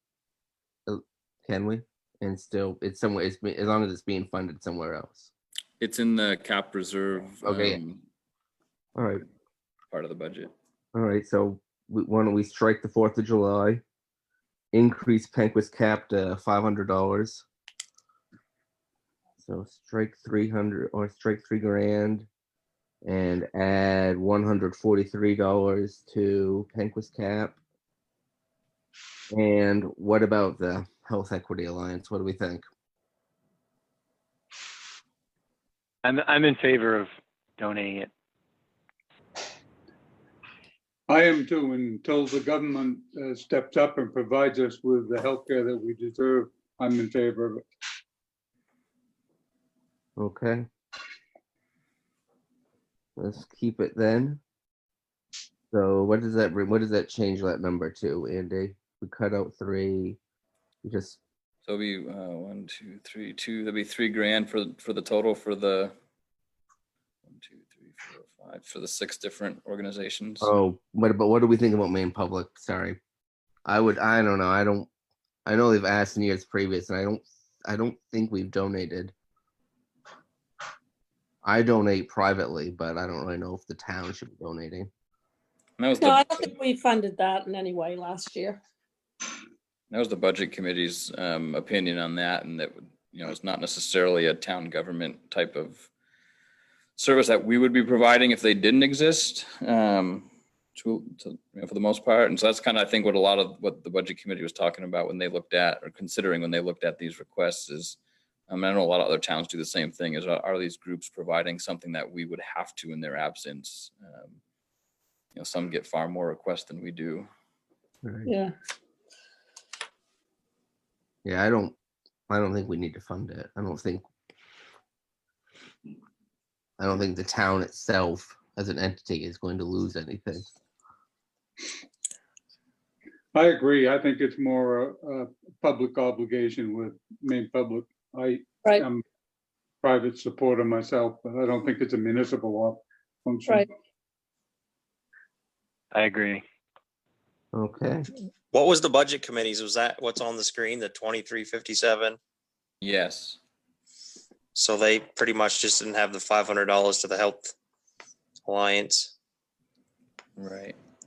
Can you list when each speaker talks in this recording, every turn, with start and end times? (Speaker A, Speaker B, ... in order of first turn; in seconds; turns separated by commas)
Speaker A: 0.9-5.3, Speaker B: 5.8-8.0, Speaker A: 7.4-7.8, Speaker A: 8.9-9.2, Speaker B: 9.9-10.5, Speaker A: 10.9-13.8, Speaker A: 14.7-17.4, Speaker A: 19.4-22.3, Speaker A: 23.0-27.6, Speaker A: 29.3-32.6, Speaker C: 36.0-38.1, Speaker D: 41.1-47.6, Speaker A: 50.2-50.7, Speaker A: 53.2-54.4, Speaker A: 55.7-60.2, Speaker A: 60.8-61.2, Speaker B: 61.6-65.9, Speaker B: 67.3-70.5, Speaker A: 70.4-73.0, Speaker A: 73.7-74.9, Speaker A: 75.5-79.1, Speaker A: 81.4-84.9, Speaker B: 85.8-86.5, Speaker E: 86.0-88.6, Speaker B: 89.9-95.9, Speaker B: 97.0-108.0, Speaker B: 108.5-114.4, Speaker B: 115.3-117.3, Speaker A: 118.0-118.3, Speaker E: 118.2-118.5, Speaker A: 121.2-121.7, Speaker A: 122.3-124.0, Speaker A: 126.8-130.5, Speaker D: 133.3-139.0, Speaker D: 139.8-143.6, Speaker C: 145.9-146.4, Speaker A: 147.5-148.1, Speaker F: 148.5-152.2, Speaker B: 152.8-153.4, Speaker F: 154.5-157.5, Speaker F: 158.4-159.1, Speaker B: 160.4-160.8